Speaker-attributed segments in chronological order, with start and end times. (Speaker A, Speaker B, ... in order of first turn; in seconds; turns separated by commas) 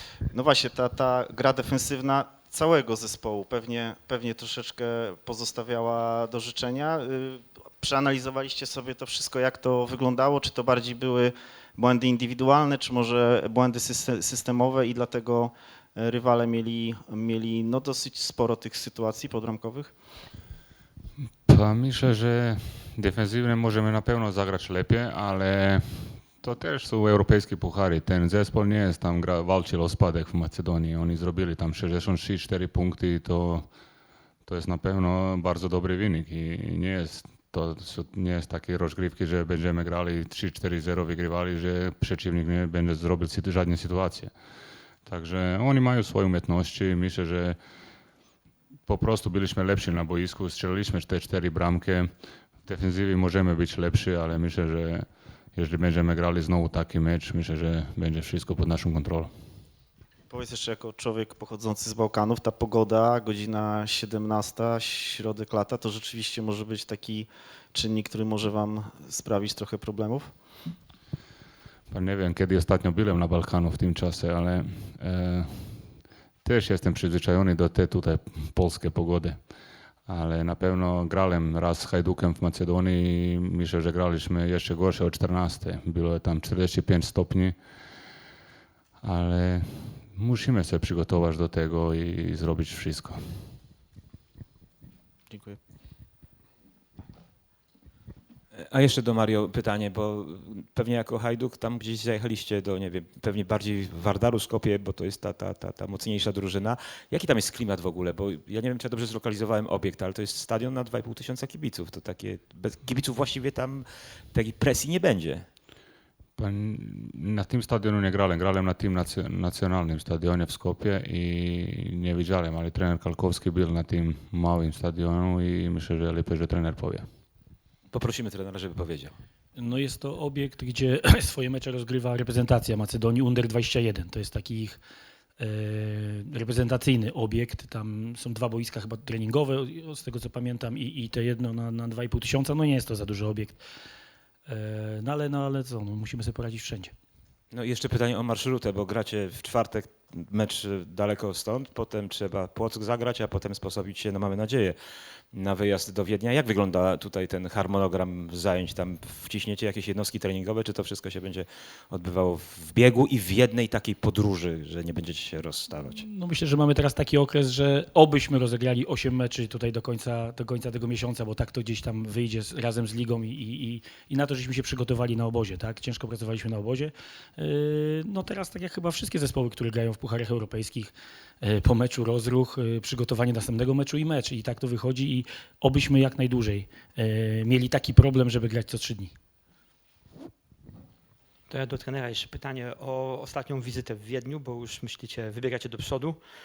Speaker A: 0.3-19.9, Speaker B: 21.5-33.7, Speaker B: 34.4-44.3, Speaker B: 45.0-47.6, Speaker B: 48.9-52.1, Speaker B: 52.6-59.3, Speaker A: 60.3-70.3, Speaker B: 71.9-75.8, Speaker B: 76.4-79.4, Speaker B: 80.1-87.5, Speaker B: 89.0-93.4, Speaker A: 95.3-95.6, Speaker C: 98.6-115.5, Speaker B: 116.4-127.0, Speaker C: 127.9-129.1, Speaker D: 129.6-134.8, Speaker D: 135.4-143.6, Speaker D: 144.5-146.9, Speaker C: 147.5-154.8, Speaker C: 155.3-166.0, Speaker D: 165.8-189.1, Speaker E: 191.5-196.2